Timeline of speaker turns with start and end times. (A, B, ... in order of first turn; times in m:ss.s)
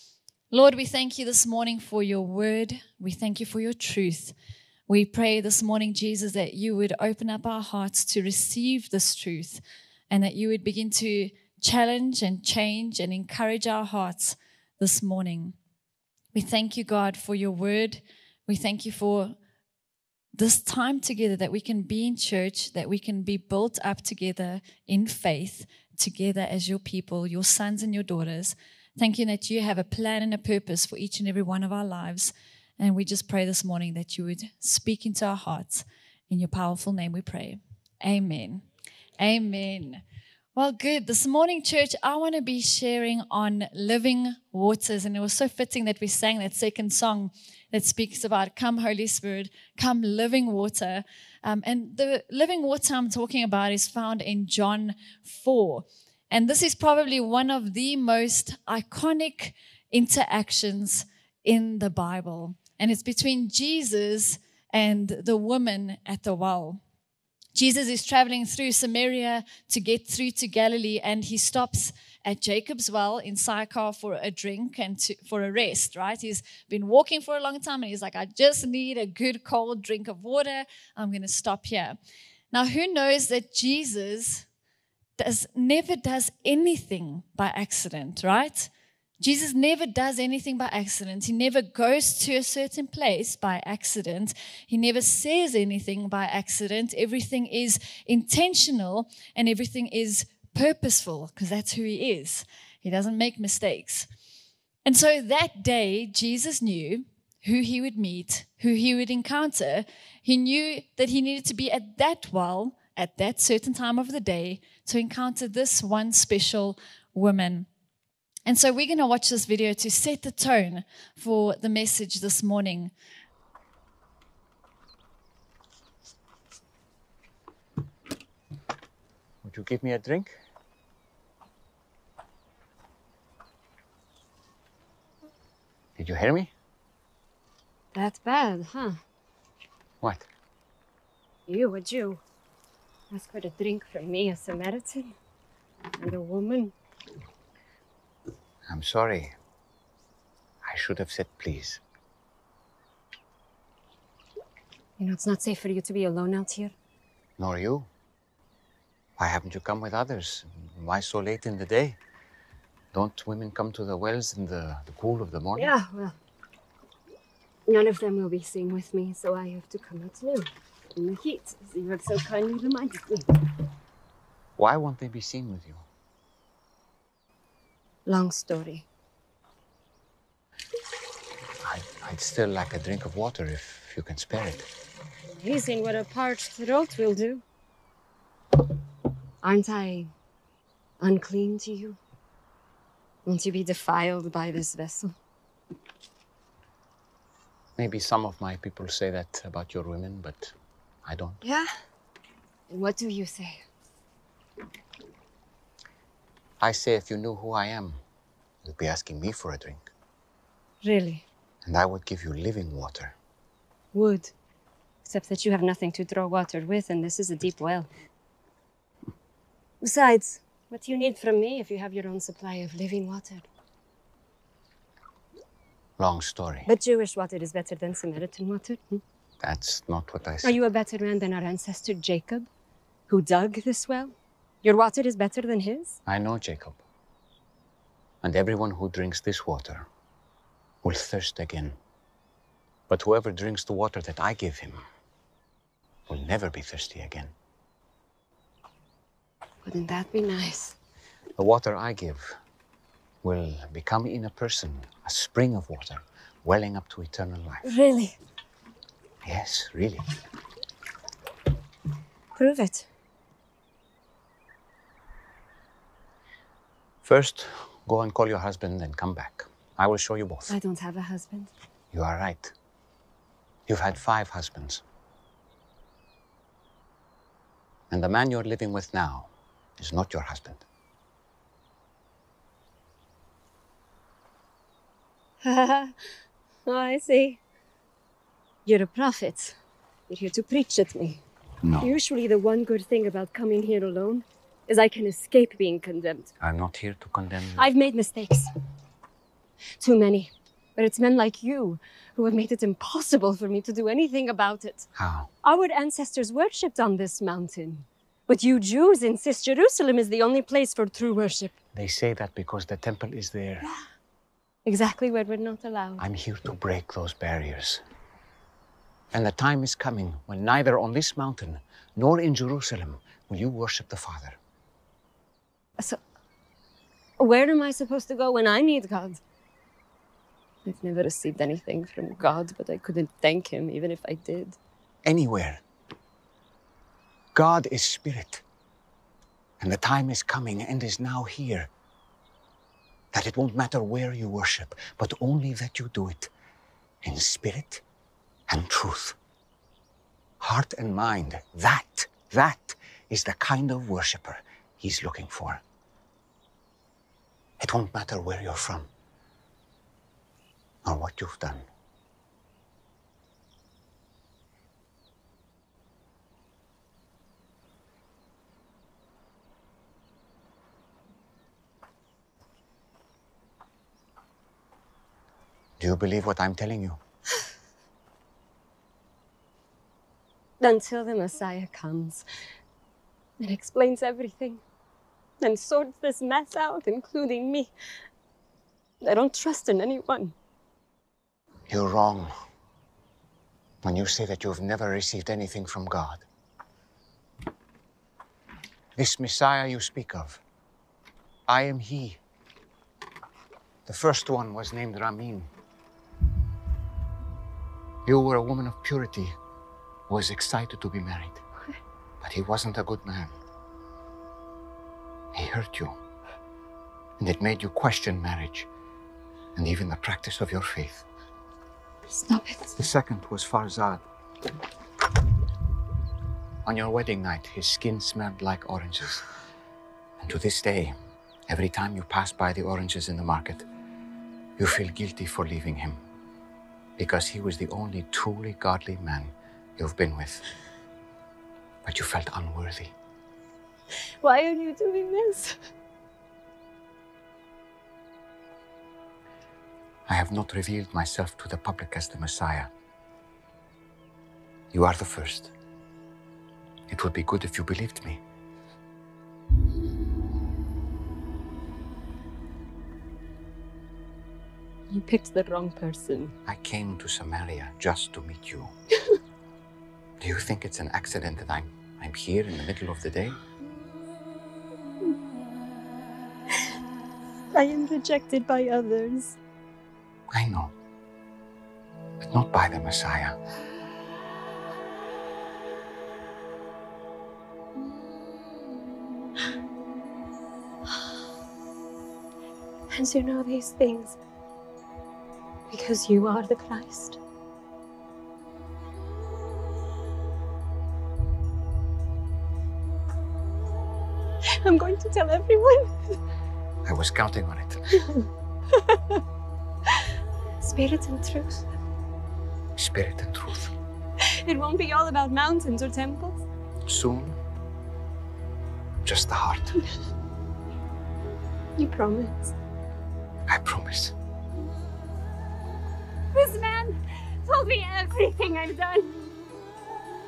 0:00.5-0:04.3 A
0:04.9-0:15.6 A
0:16.3-0:19.3 A
0:20.3-0:38.6 A
0:39.2-0:40.0 A
0:40.5-1:06.8 A
1:07.5-1:22.0 A
1:22.5-1:24.4 A
1:25.2-1:44.1 A
1:44.8-1:57.7 A
1:58.4-2:02.9 A
2:09.4-2:10.4 B
2:16.0-2:16.5 B
2:17.9-2:19.0 C
2:20.0-2:20.3 B
2:21.5-2:22.2 C
2:23.1-2:25.1 C
2:26.0-2:26.7 C
2:28.7-2:29.3 B
2:30.6-2:31.8 B
2:35.0-2:36.7 C
2:37.4-2:37.9 B
2:39.2-2:42.0 B
2:42.9-2:45.7 B
2:45.6-2:46.1 C
2:47.6-2:53.4 C
2:54.6-2:55.8 B
2:58.0-2:58.8 C
3:01.6-3:04.6 B
3:05.4-3:07.4 C
3:09.4-3:10.1 C
3:11.0-3:12.0 C
3:13.2-3:15.1 C
3:17.8-3:21.4 B
3:21.4-3:21.7 C
3:22.7-3:23.6 C
3:26.6-3:28.0 B
3:28.6-3:29.8 B
3:30.8-3:31.2 C
3:31.6-3:33.1 B
3:33.9-3:34.3 C
3:35.0-3:37.9 C
3:39.8-3:43.5 C
3:46.0-3:46.7 B
3:46.6-3:49.0 C
3:49.4-3:50.6 B
3:50.4-3:52.5 C
3:53.1-3:56.0 C
3:56.0-3:56.8 B
3:58.2-3:59.9 B
4:00.8-4:01.8 B
4:02.9-4:04.8 B
4:06.1-4:07.3 B
4:09.6-4:10.8 C
4:11.4-4:12.4 B
4:13.2-4:17.7 B
4:17.6-4:18.2 C
4:19.2-4:20.0 B
4:22.4-4:22.9 C
4:27.0-4:30.5 B
4:30.5-4:31.5 C
4:31.9-4:32.5 B
4:33.7-4:34.8 B
4:37.9-4:40.6 B
4:45.4-4:45.9 C
4:46.6-4:47.4 C
4:48.6-4:49.6 C
4:50.1-4:51.2 C
4:51.6-4:51.9 B
4:51.8-4:56.3 C
4:56.4-4:57.6 B
4:57.6-4:58.5 C
4:59.8-5:04.9 C
5:04.9-5:05.3 B
5:05.4-5:11.6 C
5:11.7-5:13.7 B
5:14.6-5:16.0 C
5:16.0-5:17.8 B
5:19.1-5:24.4 B
5:27.2-5:29.2 C
5:30.6-5:34.6 C
5:35.0-5:35.6 B
5:37.3-5:38.4 B
5:39.6-5:41.7 B
5:43.1-5:46.3 B
5:47.0-5:47.8 B
5:48.5-5:49.2 B
5:50.4-5:55.6 B
5:57.6-5:58.9 B
6:00.8-6:01.7 B
6:15.8-6:17.0 B
6:20.6-6:22.2 C
6:23.4-6:24.6 C
6:25.4-6:27.7 C
6:29.0-6:30.3 C
6:31.7-6:32.3 B
6:33.8-6:36.2 B
6:39.0-6:40.4 B
6:41.5-6:42.2 B
6:43.8-6:45.5 B
6:48.0-6:49.4 B
6:50.1-6:51.4 B
6:52.2-6:53.3 B
6:55.3-6:56.0 B
6:57.2-6:58.7 B
6:59.5-7:01.0 B
7:02.1-7:02.8 C
7:02.8-7:04.0 B
7:06.6-7:09.2 B
7:10.2-7:11.0 B
7:11.5-7:13.6 B
7:14.6-7:16.0 B
7:17.0-7:20.4 B
7:21.8-7:22.9 B
7:24.2-7:25.6 C
7:30.0-7:32.7 B
7:34.7-7:35.5 B
7:36.9-7:38.2 B
7:44.9-7:46.3 C
7:46.4-7:48.7 B
7:50.2-7:53.4 B
7:57.5-7:59.4 C
8:00.3-8:00.7 B
8:02.2-8:03.4 B
8:12.9-8:14.2 C
8:15.7-8:17.2 C
8:24.6-8:26.2 C
8:26.8-8:27.9 B
8:30.6-8:31.6 C
8:32.8-8:33.7 B
8:34.2-8:36.4 C
8:36.8-8:37.4 B
8:39.0-8:39.8 B
8:41.8-8:42.5 C
8:43.5-8:44.1 B
8:46.3-8:49.3 C